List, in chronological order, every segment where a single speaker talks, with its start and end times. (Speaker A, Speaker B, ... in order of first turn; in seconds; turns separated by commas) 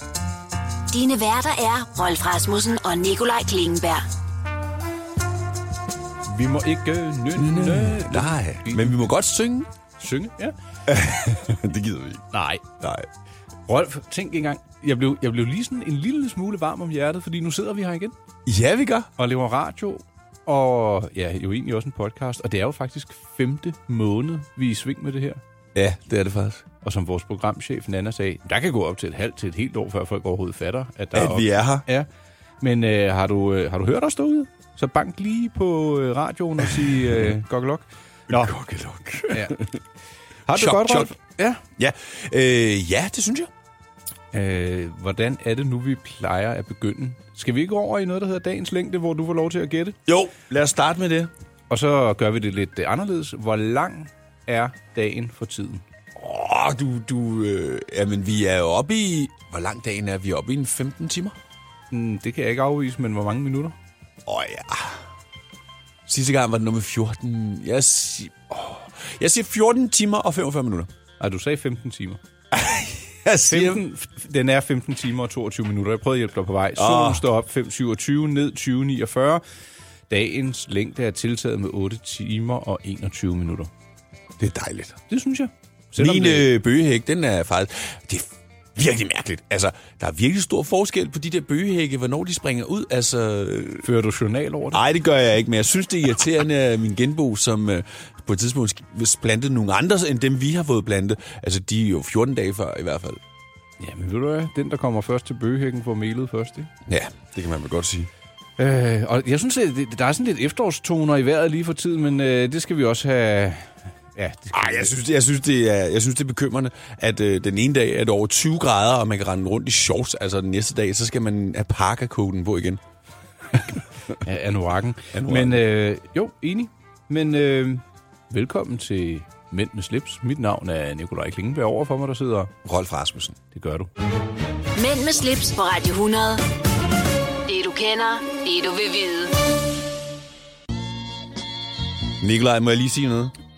Speaker A: 0.9-4.1, Speaker B: 6.3-9.1, Speaker C: 7.3-9.7, Speaker B: 10.0-10.6, Speaker C: 10.9-13.1, Speaker B: 12.3-12.6, Speaker B: 13.7-18.1, Speaker C: 18.5-19.1, Speaker B: 19.2-25.4, Speaker C: 25.8-26.6, Speaker B: 26.8-32.1, Speaker C: 31.1-31.9, Speaker B: 32.6-38.5, Speaker C: 38.3-39.8, Speaker B: 39.3-39.6, Speaker B: 40.5-41.6, Speaker C: 40.5-41.1, Speaker C: 41.8-43.5, Speaker B: 44.3-50.0, Speaker C: 50.1-51.3, Speaker B: 51.7-55.8, Speaker C: 56.2-61.4, Speaker B: 61.9-63.8, Speaker C: 64.3-65.0, Speaker C: 66.1-70.9, Speaker B: 71.2-72.2, Speaker C: 72.5-73.8, Speaker B: 73.5-79.4, Speaker C: 76.8-77.2, Speaker B: 80.1-83.7, Speaker C: 84.4-85.0, Speaker B: 85.1-86.5, Speaker C: 86.0-93.9, Speaker B: 93.8-94.8, Speaker C: 94.7-103.2, Speaker B: 103.8-106.7, Speaker C: 106.9-108.1, Speaker B: 108.6-115.0, Speaker C: 114.5-122.8, Speaker B: 124.1-132.5, Speaker C: 125.1-125.6, Speaker C: 132.6-133.4, Speaker B: 133.5-133.9, Speaker A: 134.8-136.5, Speaker A: 137.5-139.4, Speaker C: 142.2-143.3